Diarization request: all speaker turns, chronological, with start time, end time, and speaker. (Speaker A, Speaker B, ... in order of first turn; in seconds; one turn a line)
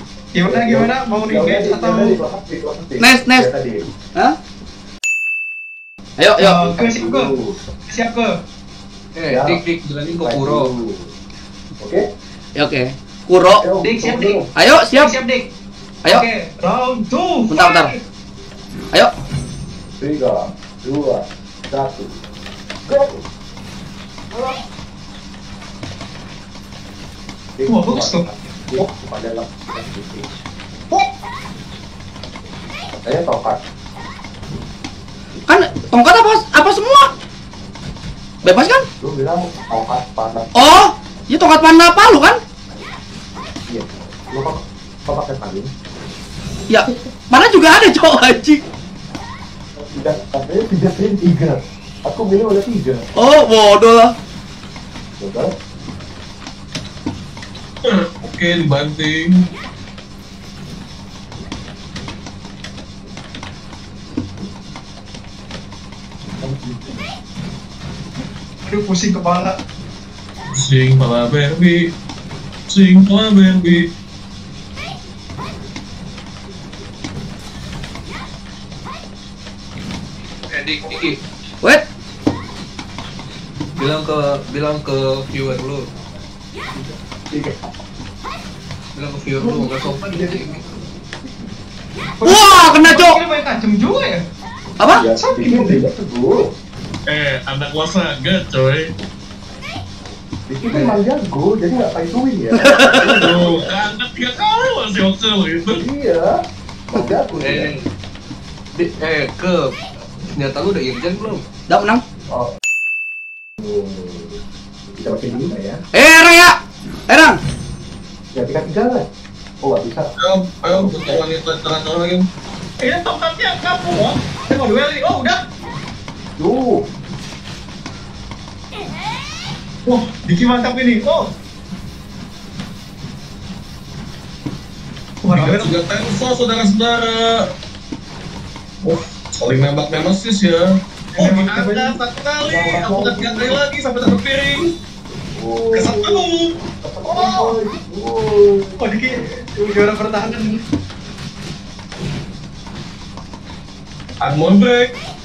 Speaker A: 0.3-2.2
Speaker B: 0.5-3.9
Speaker C: 3.0-3.5
Speaker C: 6.2-6.6
Speaker A: 6.4-7.3
Speaker B: 6.6-7.6
Speaker A: 7.8-8.3
Speaker D: 9.1-10.7
Speaker B: 9.3-9.6
Speaker B: 10.2-11.1
Speaker C: 12.6-13.6
Speaker B: 13.5-14.4
Speaker A: 13.8-15.5
Speaker C: 14.6-15.1
Speaker A: 16.1-17.9
Speaker C: 17.5-17.9
Speaker B: 20.0-22.2
Speaker B: 22.9-23.2
Speaker B: 27.6-30.3
Speaker A: 27.7-28.2
Speaker B: 32.9-33.6
Speaker C: 35.5-37.1
Speaker C: 38.4-38.8
Speaker B: 39.0-40.5
Speaker C: 40.5-42.4
Speaker B: 43.7-45.7
Speaker C: 46.7-48.6
Speaker B: 49.8-53.0
Speaker C: 53.1-54.1
Speaker B: 55.2-55.5
Speaker E: 57.8-59.2
Speaker B: 66.4-67.0
Speaker A: 68.7-69.5
Speaker E: 70.5-71.8
Speaker E: 72.7-73.8
Speaker D: 80.5-81.2
Speaker D: 83.8-85.9
Speaker B: 87.3-87.6
Speaker D: 88.9-90.6
Speaker B: 89.3-90.5
Speaker A: 92.2-94.2
Speaker C: 92.2-93.2
Speaker B: 95.0-96.5
Speaker A: 95.0-95.9
Speaker E: 97.1-98.9
Speaker B: 100.5-103.8
Speaker D: 100.7-101.0
Speaker C: 102.5-103.1
Speaker E: 103.1-105.8
Speaker B: 105.7-107.7
Speaker D: 107.3-107.8
Speaker D: 108.7-109.8
Speaker D: 110.3-111.4
Speaker C: 111.7-112.0
Speaker B: 113.6-114.3
Speaker B: 115.0-115.8
Speaker C: 115.9-116.6
Speaker C: 117.1-117.4
Speaker B: 118.3-119.1
Speaker B: 119.6-120.1
Speaker E: 120.2-122.2
Speaker B: 120.7-121.2
Speaker A: 122.8-125.4
Speaker B: 126.4-126.8
Speaker A: 129.8-131.3
Speaker A: 135.2-135.7
Speaker E: 135.3-137.3
Speaker E: 138.8-140.6
Speaker A: 141.1-141.9
Speaker E: 141.2-144.7
Speaker B: 142.4-143.6
Speaker B: 145.3-146.2
Speaker E: 145.7-146.5
Speaker B: 146.8-148.8
Speaker A: 147.0-147.6
Speaker A: 148.8-150.6
Speaker E: 154.2-154.9